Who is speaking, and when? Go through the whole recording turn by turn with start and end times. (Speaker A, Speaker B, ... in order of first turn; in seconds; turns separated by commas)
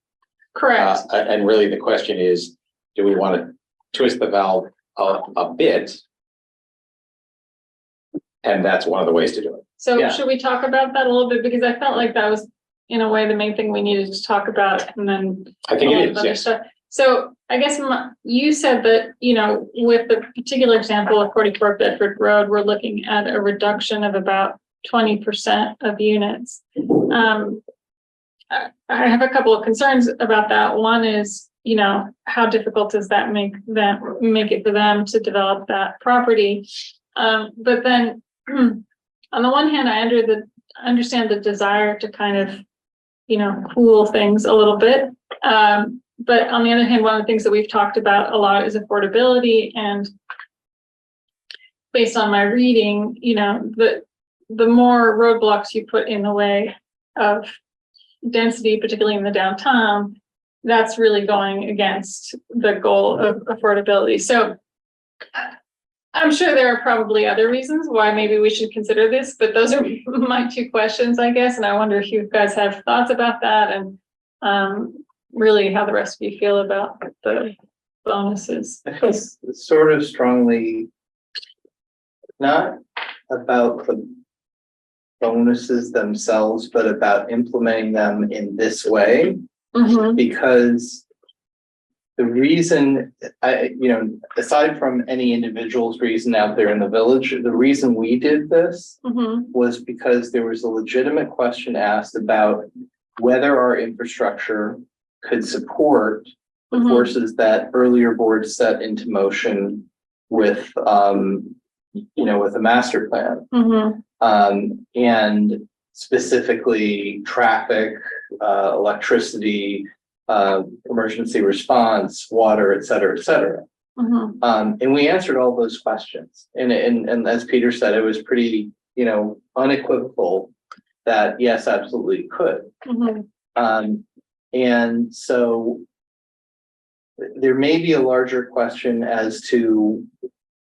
Speaker A: 0.5-1.0, Speaker B: 0.8-6.0, Speaker B: 8.4-9.6, Speaker A: 9.8-27.6, Speaker C: 9.9-10.2, Speaker B: 15.7-16.4, Speaker A: 28.5-42.6, Speaker A: 43.3-50.1, Speaker A: 51.9-57.5, Speaker A: 58.2-64.6, Speaker A: 66.1-78.8, Speaker C: 78.9-80.9, Speaker C: 82.4-84.1, Speaker C: 85.2-89.4, Speaker A: 89.7-90.2, Speaker C: 90.2-91.0, Speaker C: 92.2-99.0, Speaker A: 99.0-99.5, Speaker C: 99.5-102.7, Speaker C: 103.2-111.5, Speaker A: 106.7-107.1, Speaker C: 112.1-113.5, Speaker A: 113.5-114.0, Speaker C: 114.2-123.6, Speaker A: 124.0-124.4, Speaker C: 124.4-130.5, Speaker C: 131.0-132.7, Speaker A: 132.8-133.2, Speaker C: 133.5-135.8, Speaker C: 137.2-140.1